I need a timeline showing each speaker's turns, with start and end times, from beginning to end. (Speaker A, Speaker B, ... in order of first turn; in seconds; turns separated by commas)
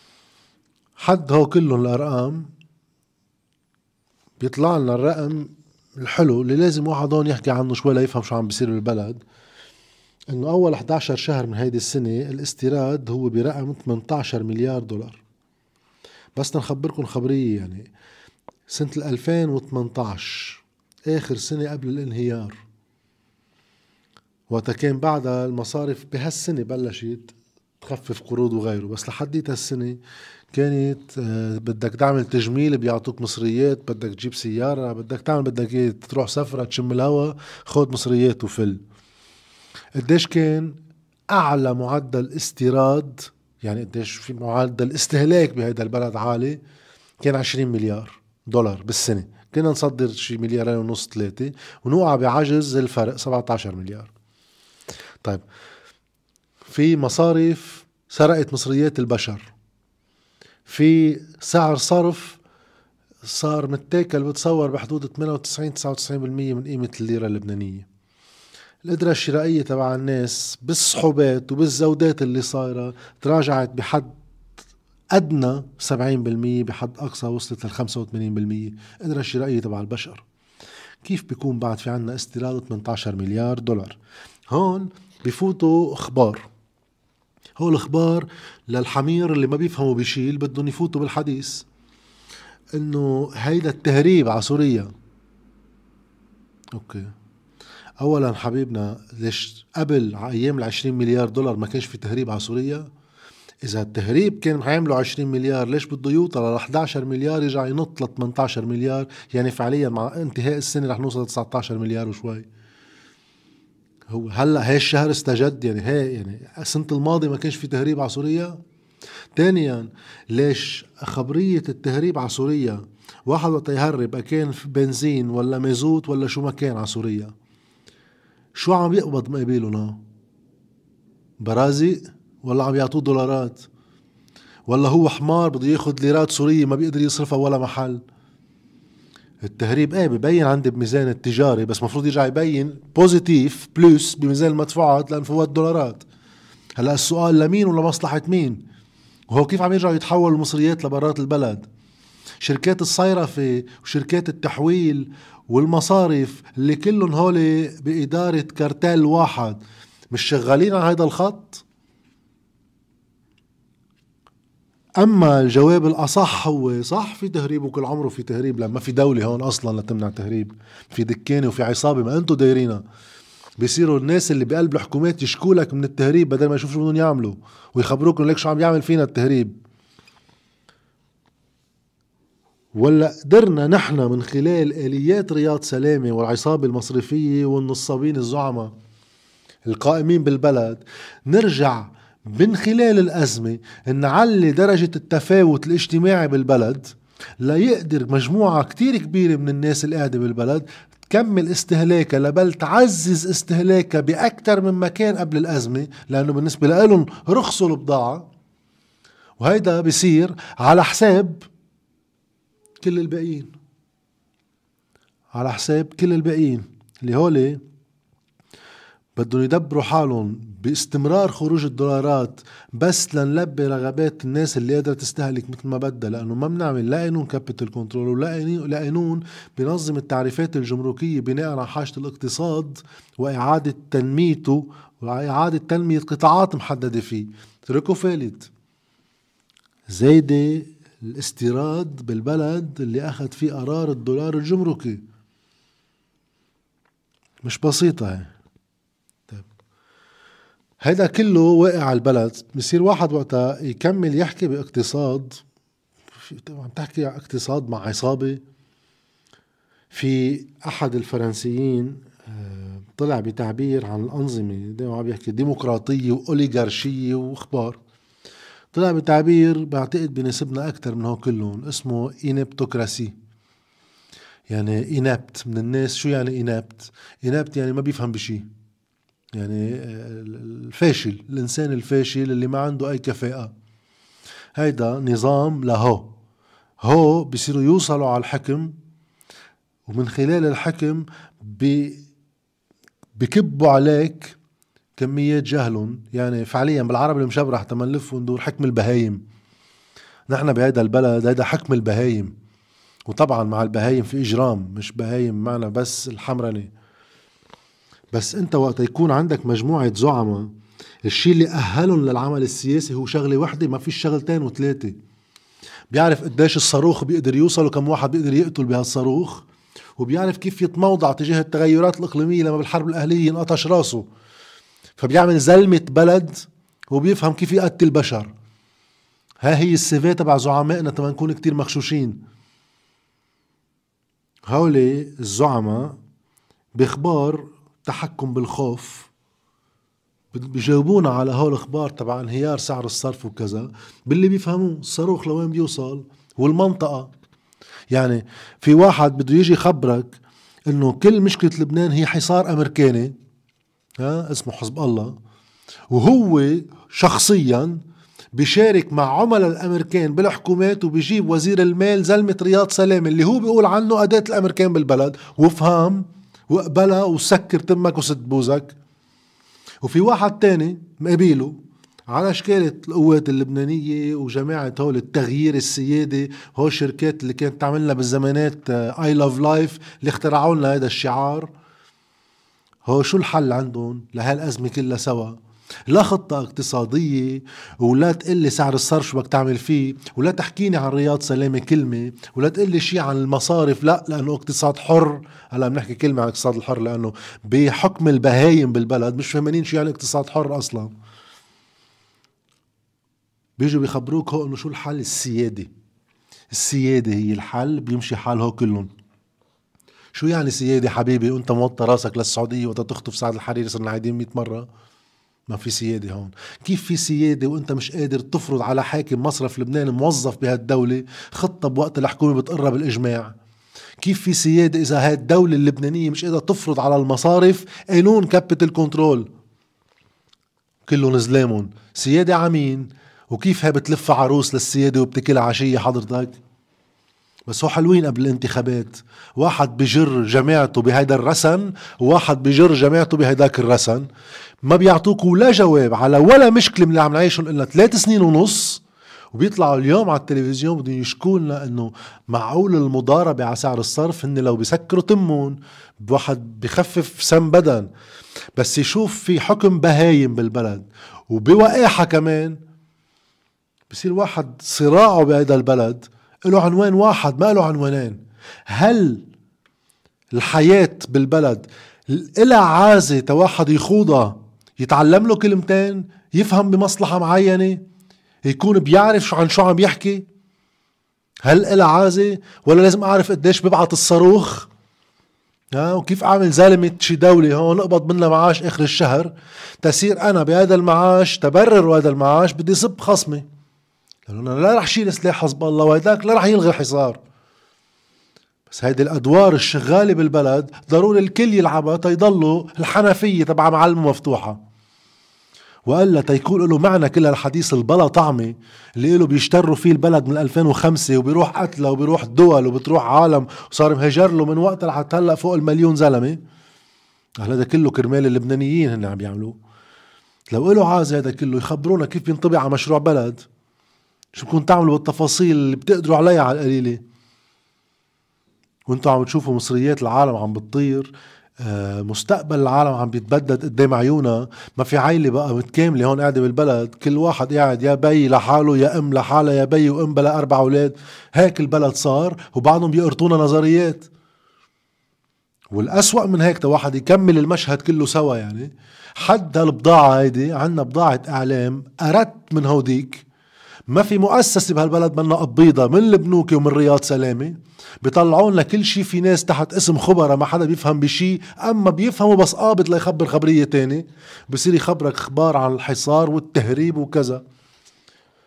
Speaker A: 1.0-2.5, Speaker A: 4.4-9.2, Speaker A: 10.3-15.2, Speaker A: 16.4-17.9, Speaker A: 18.7-22.6, Speaker A: 24.5-30.0, Speaker A: 30.5-38.8, Speaker A: 40.0-40.8, Speaker A: 41.3-46.6, Speaker A: 47.2-54.1, Speaker A: 56.6-59.5, Speaker A: 60.7-62.4, Speaker A: 63.2-67.9, Speaker A: 68.8-74.1, Speaker A: 75.1-80.2, Speaker A: 81.0-84.0, Speaker A: 84.5-86.4, Speaker A: 87.6-91.7, Speaker A: 92.7-94.9, Speaker A: 96.7-97.1, Speaker A: 98.0-102.9, Speaker A: 103.6-112.5, Speaker A: 114.1-118.6, Speaker A: 119.3-127.3, Speaker A: 128.5-130.0, Speaker A: 131.4-133.7, Speaker A: 134.7-138.0, Speaker A: 139.4-146.1, Speaker A: 146.8-148.6, Speaker A: 149.3-151.7, Speaker A: 152.4-159.6, Speaker A: 160.1-161.6, Speaker A: 165.0-172.8, Speaker A: 173.6-179.5, Speaker A: 182.7-188.7, Speaker A: 189.7-208.3, Speaker A: 209.4-211.4, Speaker A: 212.8-213.5, Speaker A: 215.3-217.6, Speaker A: 219.2-238.5, Speaker A: 239.9-245.0, Speaker A: 247.4-248.3, Speaker A: 250.8-255.4, Speaker A: 256.2-258.4, Speaker A: 259.9-267.8, Speaker A: 268.7-273.1, Speaker A: 274.5-278.4, Speaker A: 279.3-283.5, Speaker A: 284.6-286.1, Speaker A: 286.8-288.7, Speaker A: 289.9-292.0, Speaker A: 293.2-294.4, Speaker A: 295.0-299.2, Speaker A: 300.3-302.3, Speaker A: 303.1-306.7, Speaker A: 308.1-310.5, Speaker A: 311.0-314.9, Speaker A: 315.9-319.4, Speaker A: 320.0-324.0, Speaker A: 325.0-328.3, Speaker A: 329.4-332.2, Speaker A: 334.5-336.0, Speaker A: 336.8-339.1, Speaker A: 340.3-347.1, Speaker A: 347.9-350.2, Speaker A: 350.7-353.1, Speaker A: 354.0-355.1, Speaker A: 355.9-357.8, Speaker A: 358.3-368.7, Speaker A: 369.8-371.6, Speaker A: 372.1-381.5, Speaker A: 382.9-385.4, Speaker A: 385.9-400.9, Speaker A: 403.6-405.7, Speaker A: 406.5-408.9, Speaker A: 410.1-414.7, Speaker A: 415.5-423.3, Speaker A: 424.0-429.3, Speaker A: 430.9-436.4, Speaker A: 437.5-444.1, Speaker A: 444.6-457.9, Speaker A: 458.6-462.6, Speaker A: 463.9-469.2, Speaker A: 470.3-477.8, Speaker A: 478.4-480.2, Speaker A: 481.4-484.7, Speaker A: 485.7-493.4, Speaker A: 494.3-497.2, Speaker A: 498.7-504.6, Speaker A: 505.9-516.4, Speaker A: 517.4-519.5, Speaker A: 520.5-523.5, Speaker A: 524.3-527.0, Speaker A: 528.9-544.1, Speaker A: 545.7-553.2, Speaker A: 553.9-567.4